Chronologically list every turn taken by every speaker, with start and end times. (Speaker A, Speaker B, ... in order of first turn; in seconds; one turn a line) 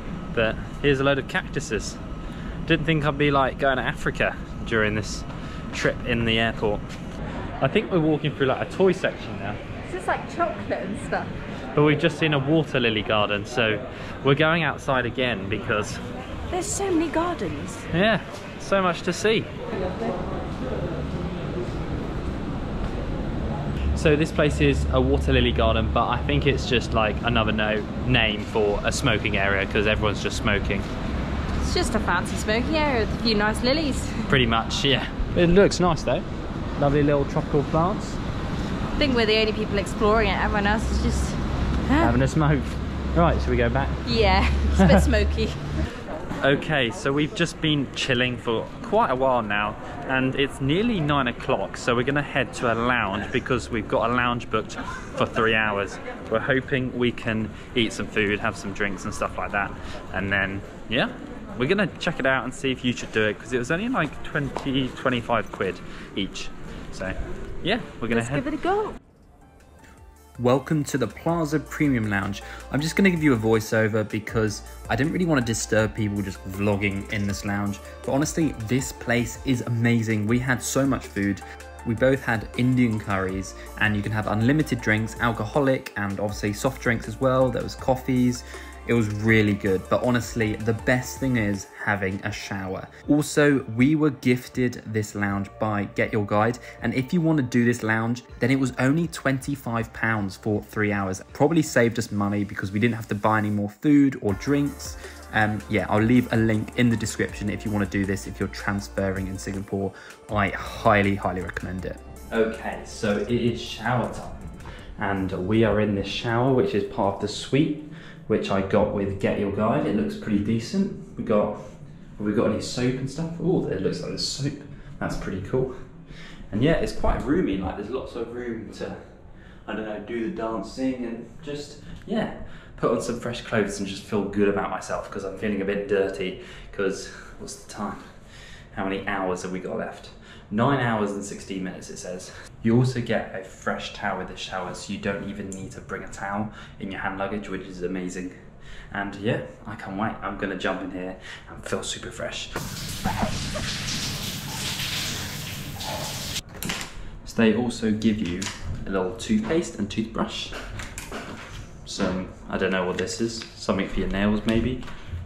Speaker A: 0.3-2.0
Speaker A: 2.7-6.8
Speaker A: 7.6-9.6
Speaker B: 9.9-11.3
Speaker A: 11.7-16.0
Speaker B: 16.5-17.9
Speaker A: 17.9-19.5
Speaker A: 23.9-30.9
Speaker B: 31.6-34.3
Speaker A: 34.3-36.2
Speaker A: 36.8-38.2
Speaker B: 39.0-42.1
Speaker A: 42.0-44.0
Speaker B: 44.0-45.6
Speaker A: 46.4-68.5
Speaker B: 68.1-69.0
Speaker A: 70.4-121.6
Speaker A: 122.2-125.7
Speaker A: 126.5-129.0
Speaker A: 129.7-138.1
Speaker A: 138.7-148.3
Speaker A: 148.9-152.6
Speaker A: 157.2-160.5
Speaker A: 161.8-164.8